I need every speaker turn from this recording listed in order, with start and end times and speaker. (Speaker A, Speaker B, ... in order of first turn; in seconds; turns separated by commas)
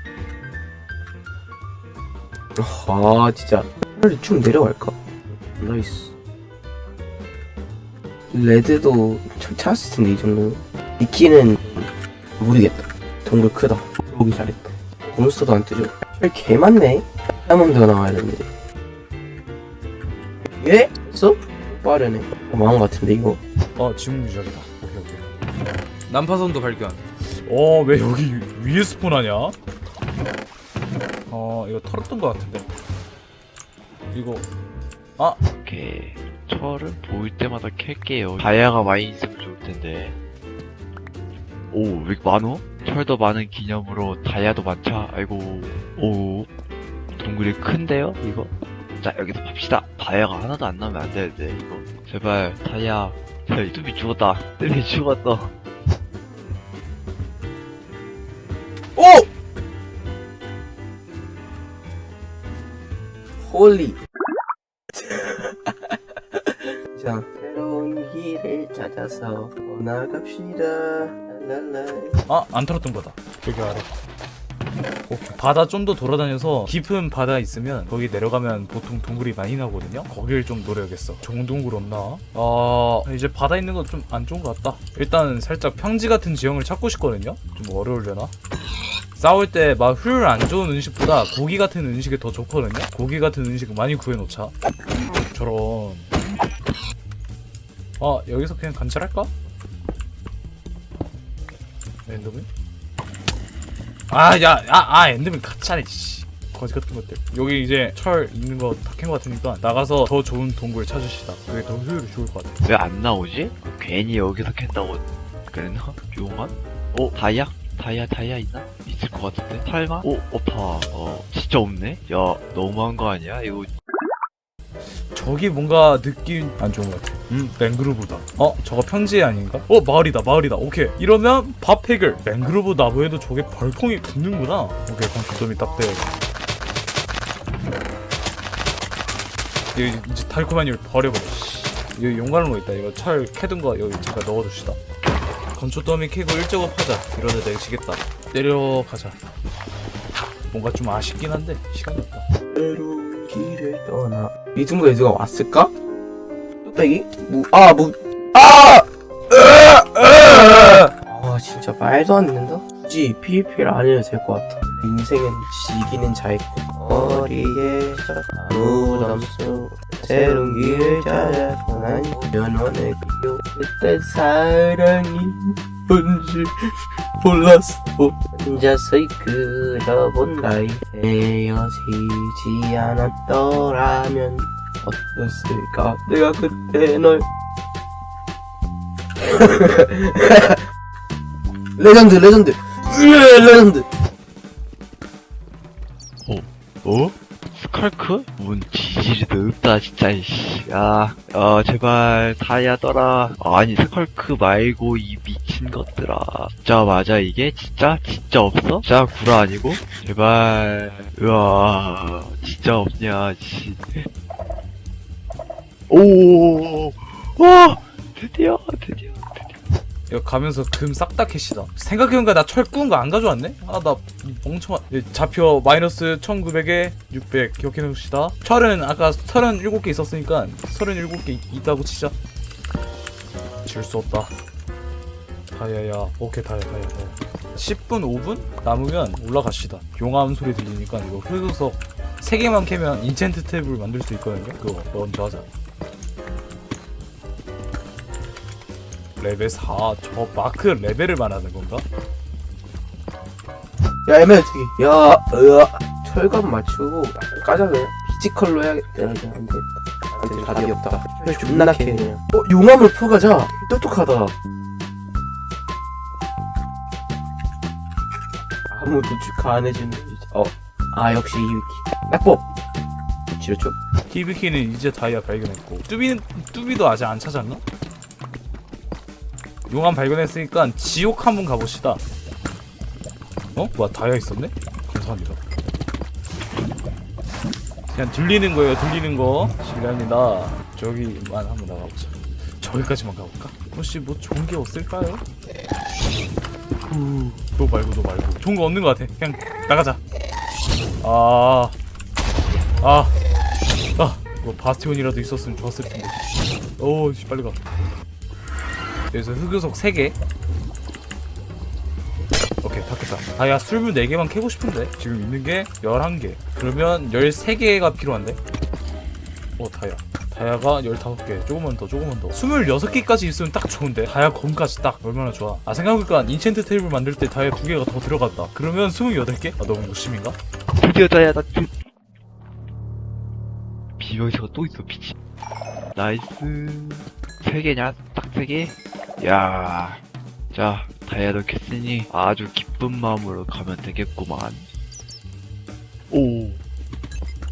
Speaker A: 2.5-6.1, Speaker A: 8.3-18.5, Speaker A: 20.6-23.4, Speaker B: 23.8-25.3, Speaker B: 26.1-29.5, Speaker B: 31.3-32.7, Speaker B: 34.1-34.5, Speaker C: 35.5-40.1, Speaker C: 41.7-46.5, Speaker C: 47.2-55.5, Speaker A: 59.0-59.3, Speaker A: 63.4-64.0, Speaker A: 64.9-72.2, Speaker B: 72.3-73.9, Speaker B: 75.1-88.3, Speaker B: 89.2-94.5, Speaker B: 95.3-96.1, Speaker B: 98.0-99.3, Speaker B: 102.0-102.5, Speaker B: 104.1-112.6, Speaker C: 112.6-123.7, Speaker B: 124.9-136.1, Speaker B: 139.7-144.8, Speaker B: 145.5-149.2, Speaker B: 150.5-152.2, Speaker A: 152.5-155.7, Speaker A: 156.6-176.6, Speaker A: 177.2-187.2, Speaker A: 189.2-190.6, Speaker A: 191.8-193.8, Speaker C: 196.2-214.1, Speaker C: 215.9-219.6, Speaker B: 220.1-232.1, Speaker B: 233.6-234.3, Speaker B: 235.5-245.4, Speaker B: 249.2-251.8, Speaker A: 254.1-264.3, Speaker A: 268.7-272.4, Speaker A: 273.4-273.8, Speaker B: 274.1-277.6, Speaker B: 279.7-282.0, Speaker B: 283.5-285.4, Speaker B: 287.9-295.2, Speaker B: 296.9-300.0, Speaker B: 301.0-301.7, Speaker B: 302.8-303.1, Speaker B: 304.0-306.2, Speaker B: 306.8-307.6, Speaker B: 309.1-310.1, Speaker B: 312.6-318.4, Speaker B: 319.6-330.4, Speaker C: 330.8-331.7, Speaker C: 334.0-335.1, Speaker C: 335.9-340.0, Speaker C: 340.5-344.7, Speaker C: 346.1-346.6